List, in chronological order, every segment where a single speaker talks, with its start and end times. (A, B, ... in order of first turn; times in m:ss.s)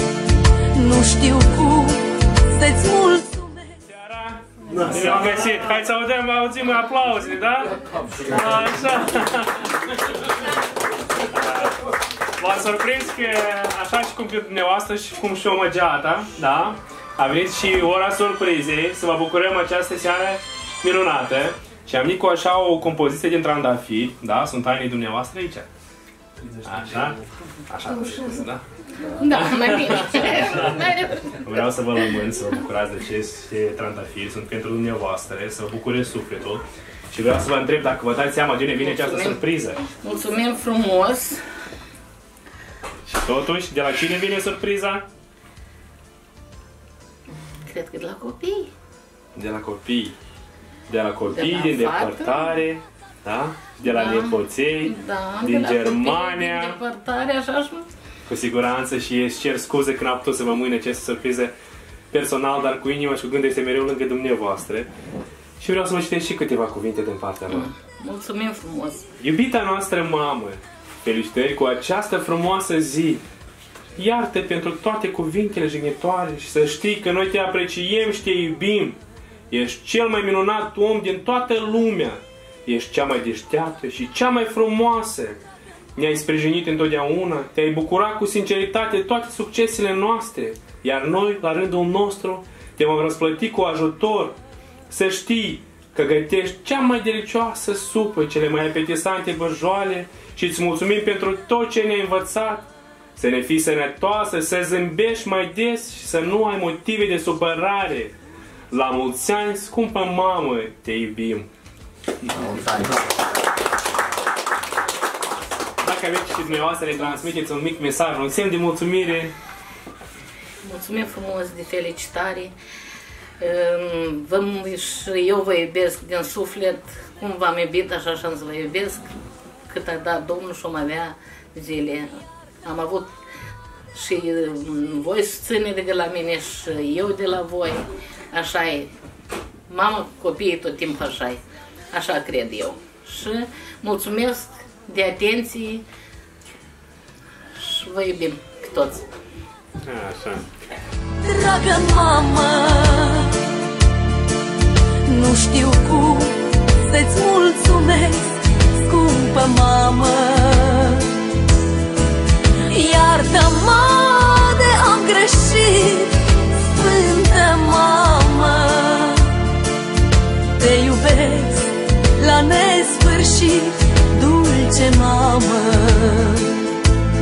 0:00.7-0:03.8 A
0:03.9-0:10.2 B
0:11.2-0:25.7 B
0:26.6-0:28.6 B
0:29.0-0:31.4 C
0:29.4-0:30.8 B
0:31.4-0:39.8 B
0:38.8-0:41.4 C
0:43.0-0:45.0 B
0:47.4-0:48.7 C
0:49.3-0:50.2 B
0:50.9-0:56.8 B
0:51.3-0:52.6 C
0:53.8-0:57.9 C
0:58.3-1:01.5 B
1:02.1-1:04.9 B
1:05.6-1:07.7 B
1:07.5-1:09.0 C
1:09.2-1:13.2 B
1:14.0-1:25.4 B
1:25.9-1:34.4 B
1:34.9-1:48.1 B
1:48.7-1:51.5 B
1:55.8-1:59.3 B
2:00.6-2:02.5 C
2:03.4-2:09.1 C
2:09.7-2:13.1 C
2:13.9-2:18.9 C
2:19.7-2:25.8 C
2:27.5-2:29.1 C
2:29.8-2:30.5 B
2:31.2-2:33.5 A
2:35.1-2:41.2 A
2:42.6-2:49.5 A
2:50.6-2:56.7 A